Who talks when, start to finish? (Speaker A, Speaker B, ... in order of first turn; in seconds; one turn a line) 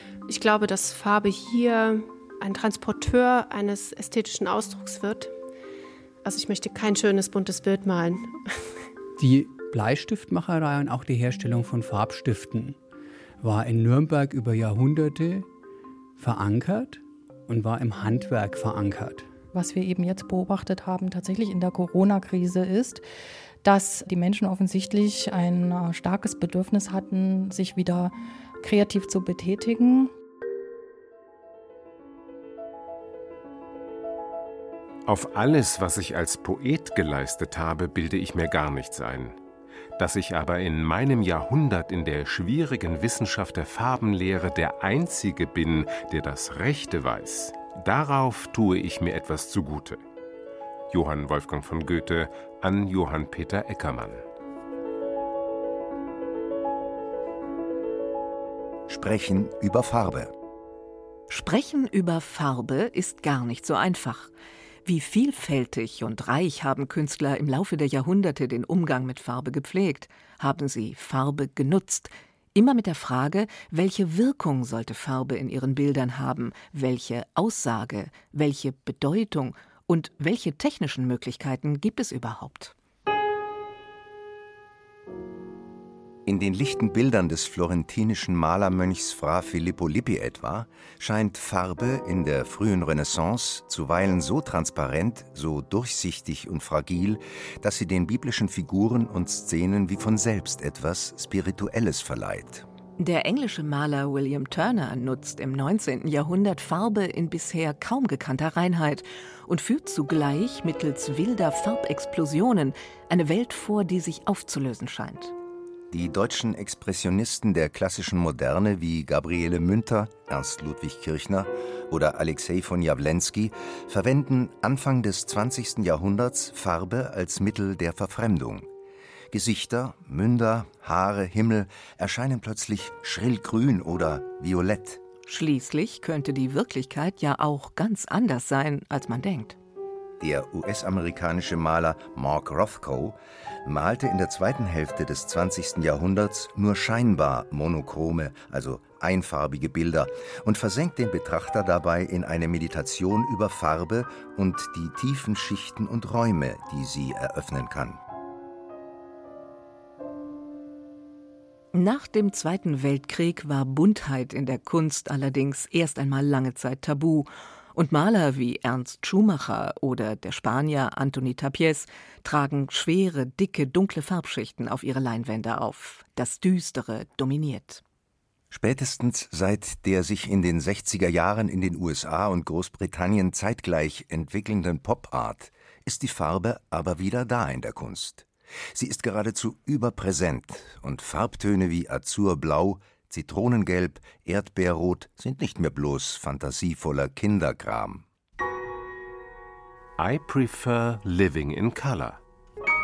Speaker A: 0.3-5.3
Speaker A: 6.2-8.7
Speaker B: 9.2-12.8
Speaker B: 13.4-15.5
Speaker B: 16.2-19.3
Speaker C: 19.5-23.0
Speaker C: 23.6-30.1
Speaker D: 35.1-39.4
Speaker D: 40.0-50.0
Speaker D: 50.9-54.2
Speaker E: 58.9-60.3
Speaker F: 61.3-64.3
Speaker F: 64.8-82.7
Speaker E: 86.3-102.7
Speaker F: 103.0-115.3
Speaker E: 115.9-128.7
Speaker E: 129.3-135.0
Speaker F: 135.3-139.6
Speaker E: 140.2-158.0
Speaker F: 161.7-177.8
Speaker E: 178.5-198.1
Speaker D: 200.0-202.2